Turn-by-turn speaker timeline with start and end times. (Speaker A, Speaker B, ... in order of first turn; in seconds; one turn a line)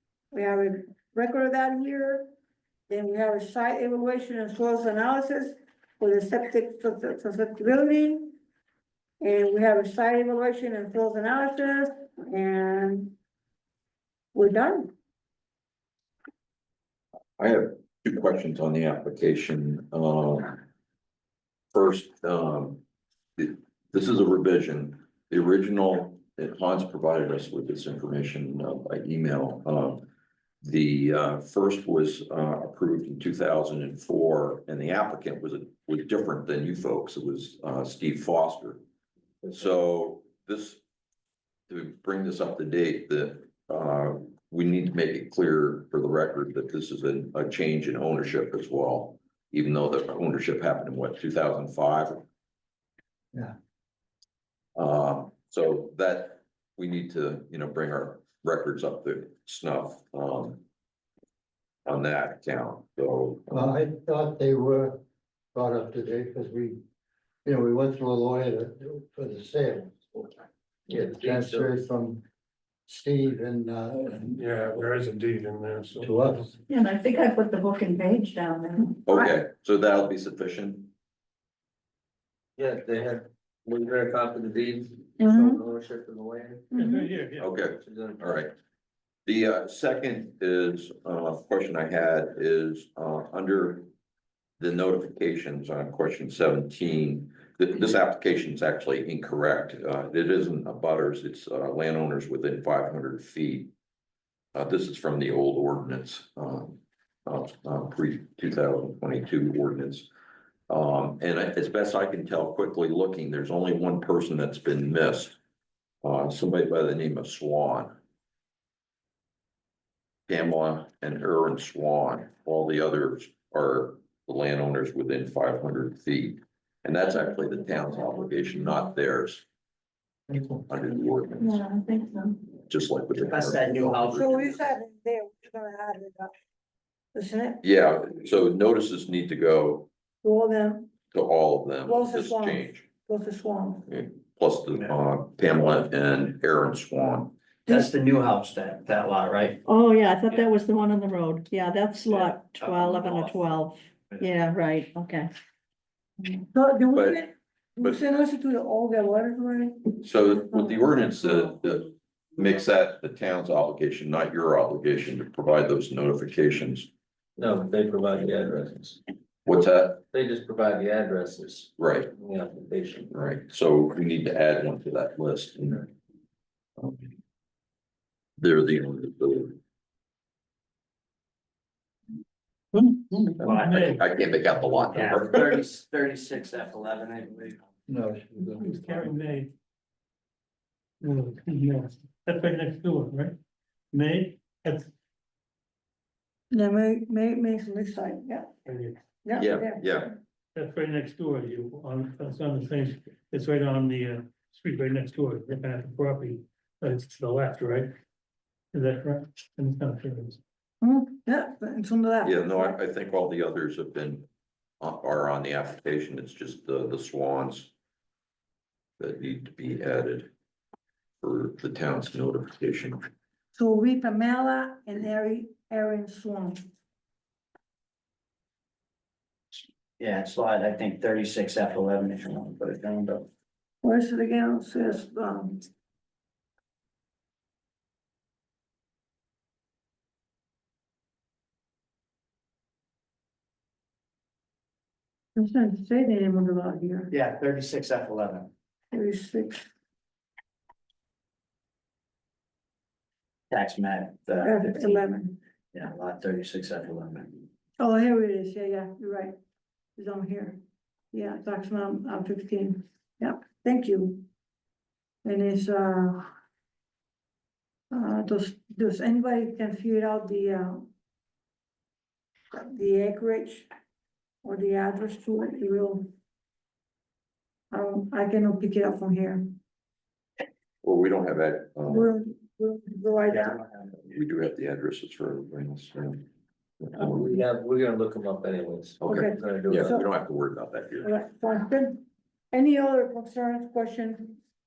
Speaker A: 0.3-2.3
Speaker A: 2.9-8.3
Speaker A: 9.2-13.1
Speaker A: 14.3-14.9
Speaker B: 17.4-20.6
Speaker B: 21.7-22.8
Speaker B: 23.4-30.1
Speaker B: 30.6-38.8
Speaker B: 39.5-40.8
Speaker B: 41.7-52.2
Speaker B: 54.7-60.6
Speaker B: 61.9-63.7
Speaker C: 63.5-65.0
Speaker C: 65.5-66.8
Speaker C: 67.4-70.3
Speaker D: 70.9-71.7
Speaker C: 70.9-72.2
Speaker C: 72.9-74.4
Speaker E: 74.4-76.3
Speaker C: 76.0-76.5
Speaker F: 76.7-79.3
Speaker B: 79.0-80.9
Speaker D: 82.6-86.7
Speaker A: 85.2-85.6
Speaker G: 86.7-87.5
Speaker A: 86.7-87.0
Speaker B: 87.4-88.5
Speaker D: 87.8-88.3
Speaker B: 89.2-93.9
Speaker B: 94.6-103.7
Speaker B: 104.5-110.1
Speaker B: 110.7-115.3
Speaker B: 116.0-117.9
Speaker B: 120.3-129.4
Speaker B: 130.7-131.6
Speaker F: 131.4-132.4
Speaker B: 132.7-134.6
Speaker D: 133.2-134.6
Speaker A: 134.1-136.3
Speaker A: 137.1-137.6
Speaker B: 137.6-139.9
Speaker A: 140.2-140.9
Speaker B: 141.1-142.8
Speaker A: 141.8-143.9
Speaker B: 143.9-147.3
Speaker D: 147.7-149.6
Speaker F: 149.7-155.3
Speaker D: 152.1-153.6
Speaker A: 156.2-161.6
Speaker B: 156.9-157.2
Speaker B: 160.0-166.9
Speaker D: 167.4-169.0
Speaker B: 169.4-170.0
Speaker D: 170.1-173.1
Speaker B: 171.8-172.1
Speaker B: 173.1-175.9
Speaker B: 176.8-177.1
Speaker B: 178.4-179.6
Speaker G: 182.7-184.0
Speaker B: 183.4-185.6
Speaker D: 183.4-184.0
Speaker D: 184.9-187.7
Speaker C: 187.9-189.1
Speaker G: 188.6-189.5
Speaker G: 191.0-193.4
Speaker G: 193.9-194.9
Speaker A: 196.5-198.5
Speaker G: 198.6-199.0
Speaker A: 199.2-200.1
Speaker B: 199.3-200.1
Speaker G: 200.5-207.9
Speaker G: 208.7-210.4
Speaker A: 210.8-212.8
Speaker B: 212.2-214.3
Speaker B: 214.8-217.7
Speaker B: 219.0-220.3
Speaker B: 221.2-223.0
Speaker A: 223.5-226.6
Speaker D: 229.5-233.3
Speaker A: 233.8-235.6
Speaker A: 245.3-247.1
Speaker D: 247.1-248.5
Speaker A: 248.9-249.7
Speaker D: 253.5-255.1
Speaker A: 254.4-255.4
Speaker D: 255.7-257.4
Speaker A: 257.8-259.4
Speaker A: 259.9-260.6
Speaker A: 261.1-264.2
Speaker A: 265.2-266.3
Speaker A: 267.9-270.9
Speaker A: 272.5-273.7
Speaker A: 274.4-276.1
Speaker A: 277.7-279.6
Speaker B: 280.8-282.1
Speaker A: 281.9-283.6
Speaker B: 284.0-286.2
Speaker B: 286.8-287.4
Speaker D: 286.9-289.9
Speaker B: 289.0-291.1
Speaker A: 289.0-290.1
Speaker A: 291.0-294.4